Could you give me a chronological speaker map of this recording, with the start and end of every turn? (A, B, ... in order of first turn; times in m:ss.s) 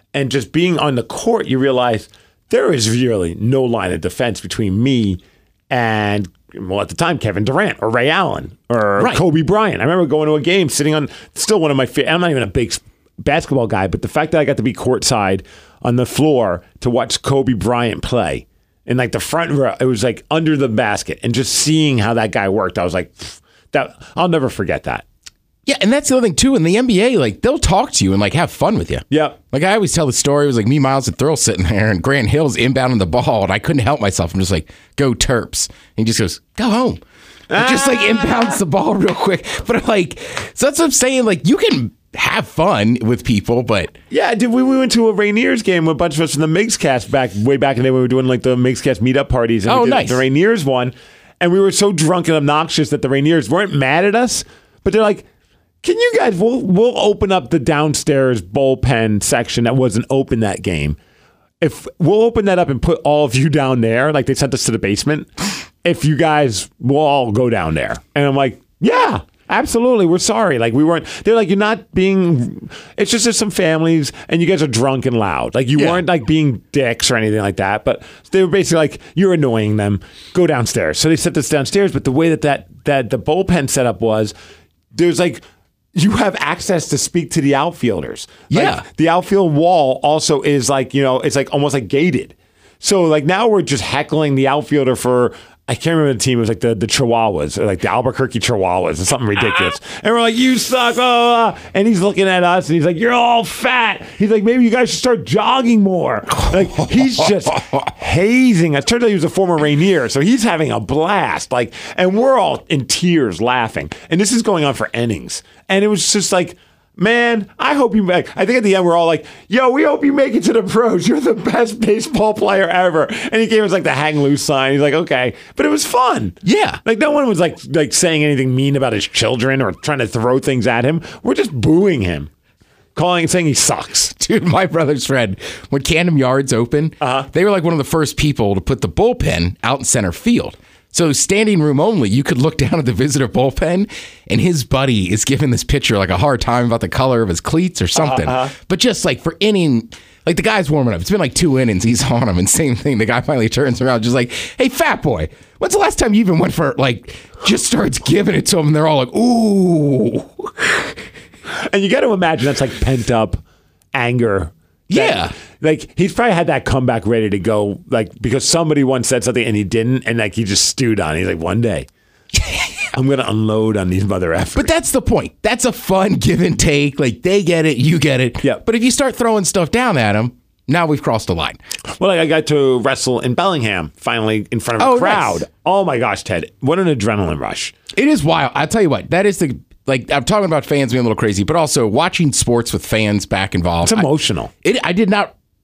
0:00.1-0:25.0 A
0:25.6-0:37.0 B
0:29.1-0:29.4 A
0:37.5-0:38.6 A
0:37.5-0:43.9 B
0:44.1-0:55.2 A
0:49.6-0:50.2 B
0:55.8-1:01.0 A
1:01.6-1:05.3 A
1:05.8-1:24.3 A
1:15.7-1:16.0 B
1:24.9-1:25.4 A
1:25.9-2:12.3 A
1:28.5-1:28.8 B
1:39.4-1:39.7 B
1:46.8-1:47.7 B
2:06.4-2:06.8 B
2:13.0-2:14.1 A
2:14.1-2:41.0 B
2:17.0-2:17.3 A
2:28.0-2:28.5 A
2:41.5-2:43.4 A
2:43.9-2:51.9 A
2:44.9-2:45.3 B
2:52.3-2:52.8 B
2:52.9-2:54.7 A
2:54.5-3:01.6 B
3:02.0-3:07.7 A
3:04.8-3:05.4 B
3:07.9-3:14.1 B
3:13.8-3:14.5 A
3:14.6-3:15.3 B